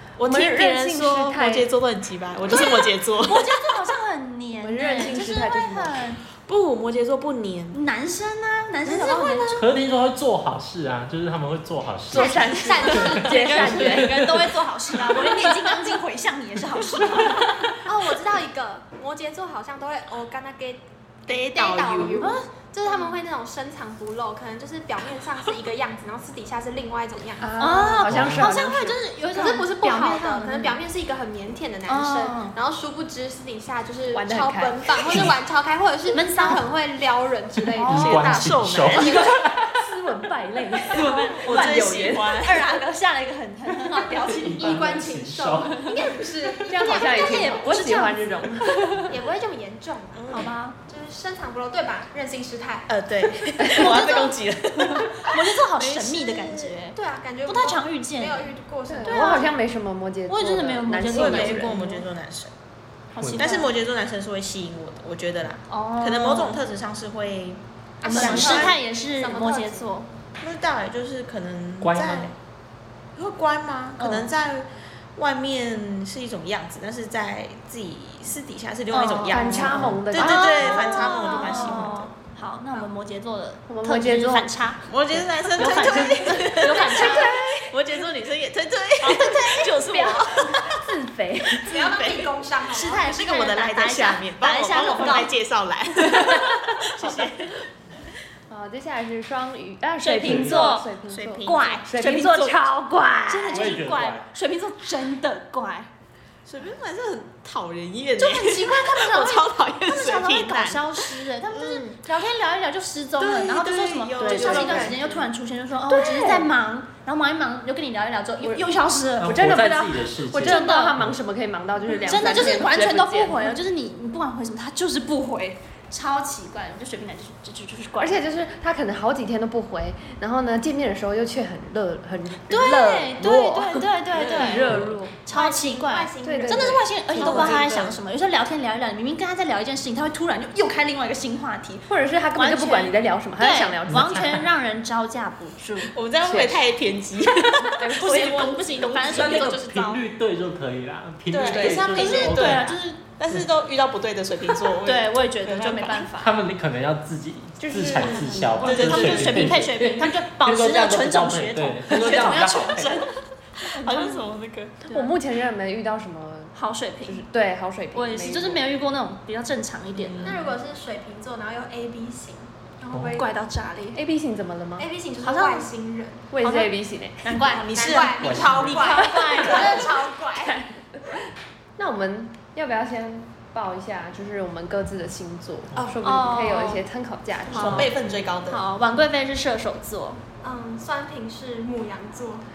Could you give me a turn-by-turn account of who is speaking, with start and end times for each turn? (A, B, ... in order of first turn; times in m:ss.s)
0:00.2-0:03.8 A
0:00.2-0:01.7 B
0:02.5-0:06.2 C
0:04.6-0:06.1 B
0:06.4-0:07.8 A
0:07.7-0:09.6 C
0:08.8-0:09.6 A
0:09.5-0:12.5 D
0:12.1-0:14.4 B
0:12.1-0:13.8 E
0:12.2-0:17.8 C
0:13.5-0:14.3 D
0:15.0-0:15.4 D
0:17.8-0:27.5 E
0:21.3-0:22.3 A
0:22.2-0:23.1 C
0:27.4-0:29.6 B
0:27.6-0:30.8 C
0:28.0-0:28.5 D
0:29.3-0:38.5 E
0:31.9-0:32.6 C
0:34.1-0:35.2 B
0:35.1-0:35.4 D
0:36.1-0:36.6 C
0:37.6-0:39.8 D
0:37.8-0:39.4 C
0:37.8-0:39.3 A
0:39.6-0:42.3 B
0:40.9-0:42.7 A
0:40.9-0:45.0 C
0:44.2-0:47.6 E
0:44.3-0:45.9 D
0:46.6-0:48.8 B
0:46.7-0:48.3 C
0:49.1-0:52.9 E
0:50.1-0:50.5 A
0:50.3-0:50.8 C
0:52.9-0:56.7 A
0:53.8-0:58.5 C
0:53.8-0:54.1 E
0:56.9-0:59.5 E
0:58.9-1:01.8 B
0:59.1-0:59.5 C
1:00.3-1:02.0 C
1:01.1-1:02.5 A
1:03.1-1:03.7 C
1:03.2-1:03.5 D
1:03.4-1:08.8 A
1:05.7-1:06.6 C
1:08.0-1:09.9 E
1:08.0-1:10.1 C
1:10.4-1:12.3 A
1:11.8-1:12.3 D
1:13.2-1:22.1 A
1:14.0-1:14.3 B
1:18.9-1:24.8 C
1:19.3-1:21.9 B
1:19.7-1:20.0 D
1:23.7-1:24.6 B
1:24.9-1:30.8 A
1:25.5-1:27.3 C
1:25.6-1:27.7 B
1:29.1-1:31.7 B
1:31.6-1:32.3 A
1:31.6-1:33.1 E
1:32.7-1:35.3 C
1:33.0-1:37.6 A
1:37.0-1:37.3 B
1:38.5-1:43.8 B
1:40.0-1:40.9 C
1:40.2-1:40.7 D
1:41.1-1:41.8 A
1:41.4-1:42.7 C
1:43.3-1:45.9 C
1:43.5-1:44.3 D
1:46.4-1:52.0 A
1:48.2-2:01.0 C
1:53.2-1:55.1 A
1:54.2-1:55.2 E
1:54.2-1:54.9 B
1:55.9-1:56.5 B
1:59.2-2:01.2 D
1:59.3-2:03.5 B
2:02.0-2:08.2 C
2:08.0-2:15.1 B
2:12.5-2:25.9 C
2:14.1-2:14.8 A
2:15.3-2:17.5 E
2:16.2-2:17.6 B
2:17.2-2:18.0 A
2:21.9-2:24.3 B
2:23.9-2:24.4 D
2:25.9-2:29.6 A
2:26.2-2:26.6 B
2:27.8-2:30.0 C
2:27.8-2:28.7 B
2:29.1-2:32.8 D
2:31.3-2:36.1 A
2:31.5-2:33.0 C
2:34.8-2:36.4 C
2:36.2-2:43.0 D
2:37.6-2:39.2 B
2:38.6-2:39.5 A
2:38.7-2:43.2 C
2:42.0-2:42.4 A
2:43.6-2:45.0 A
2:43.7-2:44.2 C
2:44.8-2:48.6 B
2:46.5-2:47.2 C
2:47.9-2:50.4 C
2:50.0-2:50.5 A
2:50.2-2:53.3 E
2:52.9-2:53.3 D
2:53.1-2:54.0 C
2:53.9-2:54.9 B
2:54.8-2:56.3 E
2:55.2-2:55.7 C
2:56.3-2:57.4 B
2:56.4-3:00.1 C
2:57.3-3:00.7 E
2:57.9-2:59.1 D
2:58.9-2:59.8 B
3:00.4-3:00.7 B
3:01.8-3:07.9 B
3:06.0-3:06.8 C
3:07.5-3:08.6 A
3:07.5-3:07.9 C
3:08.5-3:10.2 C
3:10.4-3:12.4 E